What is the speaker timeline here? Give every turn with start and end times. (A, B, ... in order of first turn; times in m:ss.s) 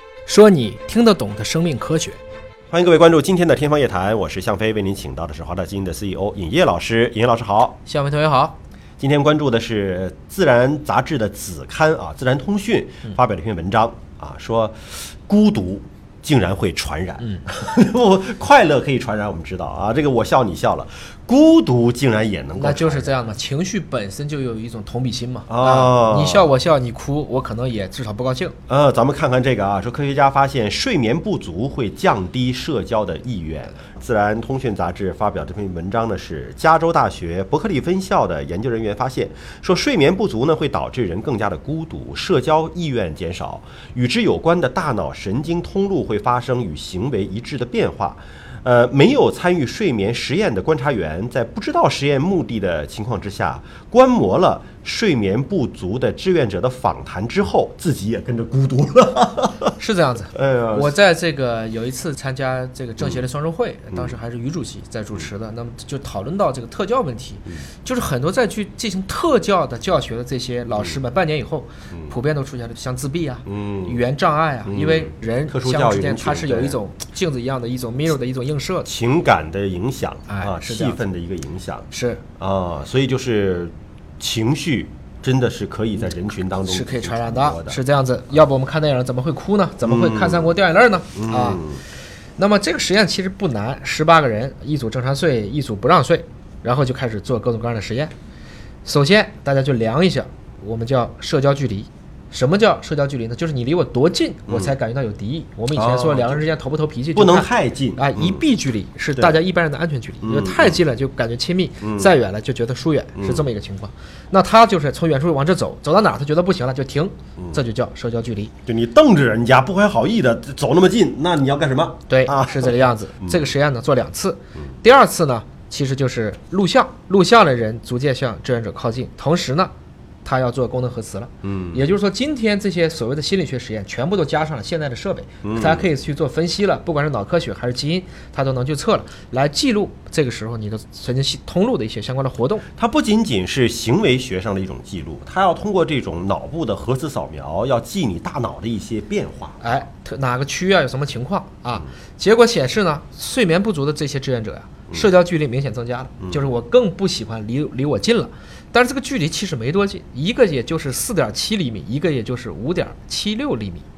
0:00.3-0:02.2 A
0:02.7-0:07.8 B
0:07.8-0:08.6 A
0:09.0-0:23.1 B
0:22.6-0:28.6 A
0:25.5-0:26.5 B
0:28.7-0:59.8 B
0:59.8-1:18.9 A
1:00.4-1:00.9 B
1:03.9-1:04.2 B
1:13.5-1:14.0 B
1:14.7-1:16.8 B
1:18.8-1:21.9 B
1:20.3-1:21.0 A
1:21.9-1:22.2 A
1:22.4-1:27.8 B
1:26.6-1:31.6 A
1:29.8-1:30.6 B
1:31.1-1:31.8 B
1:32.4-1:38.1 A
1:38.8-1:58.5 A
1:44.5-1:44.8 B
1:45.7-1:46.4 B
1:47.2-1:48.4 B
1:50.2-1:50.8 B
1:51.8-1:52.1 B
1:53.2-1:53.5 B
1:58.7-2:03.5 B
2:02.1-2:09.7 A
2:10.2-2:22.6 A
2:11.4-2:11.8 B
2:15.4-2:15.9 B
2:22.8-2:29.6 B
2:29.6-2:43.8 A